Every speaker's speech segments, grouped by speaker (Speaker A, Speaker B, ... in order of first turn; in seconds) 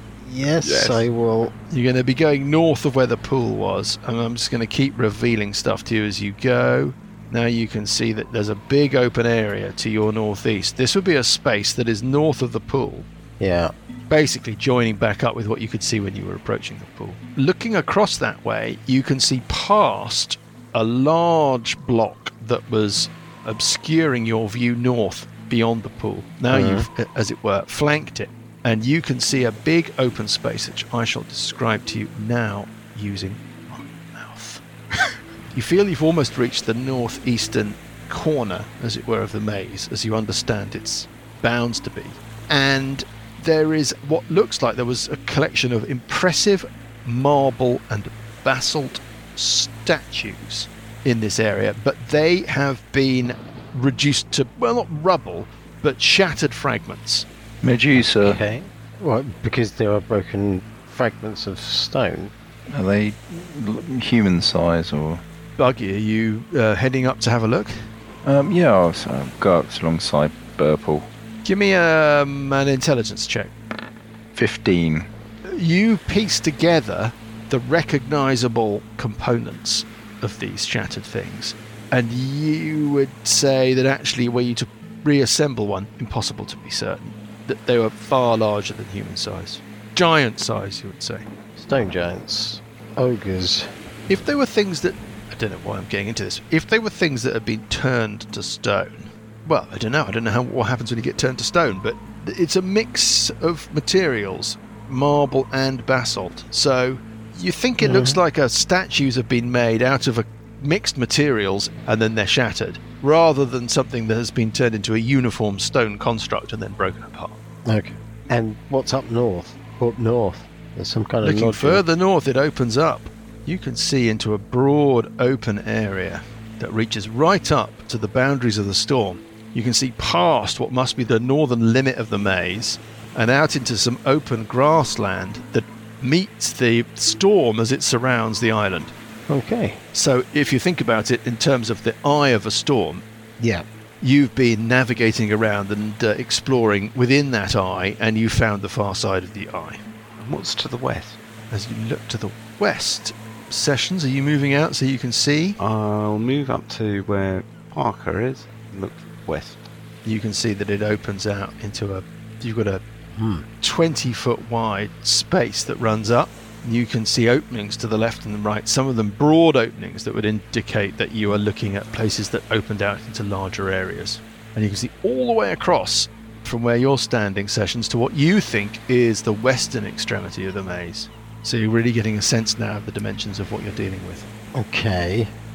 Speaker A: 0.2-1.5, 13.4-13.7, 26.5-26.9, 58.0-62.3, 91.6-93.7, 107.8-108.2, 117.7-121.8, 139.3-139.8, 163.1-163.4, 184.5-185.3
Speaker B: 0.6-1.0, 150.2-151.2, 155.6-159.6
Speaker C: 1.7-13.1, 14.1-34.6, 35.5-57.2, 65.6-67.8, 71.4-73.5, 75.5-91.3, 94.1-117.4, 121.2-138.9, 139.9-143.0, 144.0-149.8, 151.5-155.6, 160.0-162.8, 163.6-184.3
Speaker D: 57.6-58.4, 62.7-65.2, 68.2-71.1, 74.3-75.1